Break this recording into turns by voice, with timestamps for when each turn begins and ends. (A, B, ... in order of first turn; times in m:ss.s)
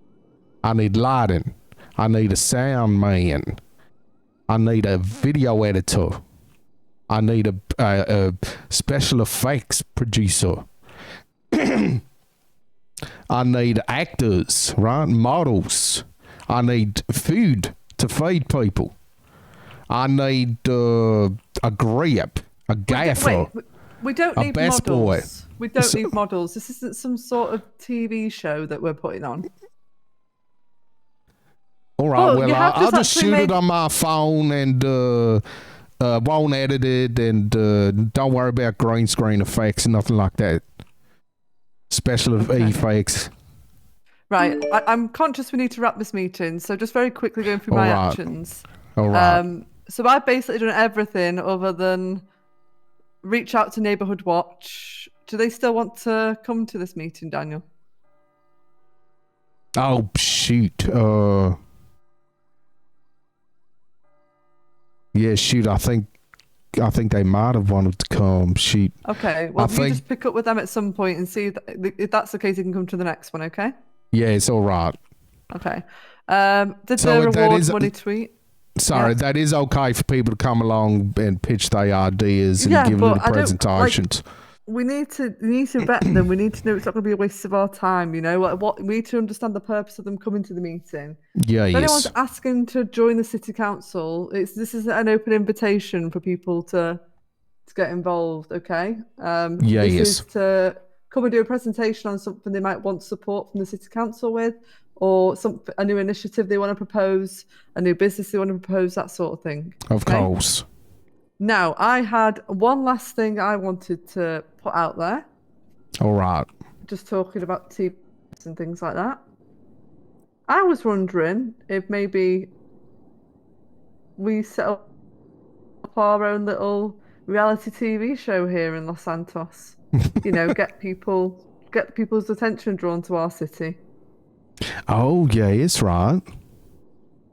0:00.6-0:03.6 A
0:04.5-0:06.2 A
0:07.1-0:10.7 A
0:11.5-0:12.0 A
0:13.3-0:18.9 A
0:19.9-0:23.5 A
0:22.9-0:29.4 B
0:24.4-0:25.3 A
0:25.8-0:26.1 A
0:32.0-0:35.4 A
0:32.1-0:33.6 B
0:36.0-0:40.6 A
0:41.9-0:43.3 A
0:42.4-0:42.8 B
0:44.3-0:52.2 B
0:47.7-0:48.2 A
0:49.0-0:49.4 A
0:53.2-0:57.6 B
0:59.8-1:01.6 A
1:05.1-1:06.1 A
1:06.7-1:09.0 A
1:09.0-1:13.7 B
1:09.6-1:10.0 A
1:14.1-1:15.0 A
1:15.5-1:18.3 B
1:17.0-1:17.9 A
1:18.8-1:24.2 A
1:22.6-1:24.0 B
1:24.7-1:31.2 B
1:31.4-1:32.1 A
1:31.7-1:37.0 B
1:37.7-1:50.3 B
1:39.6-1:40.2 A
1:49.9-1:50.6 A
1:51.4-1:55.2 B
1:56.0-1:56.5 A
1:56.8-1:59.2 B
2:00.5-2:02.5 B
2:04.2-2:04.8 B
2:05.8-2:13.8 B
2:14.9-2:16.2 A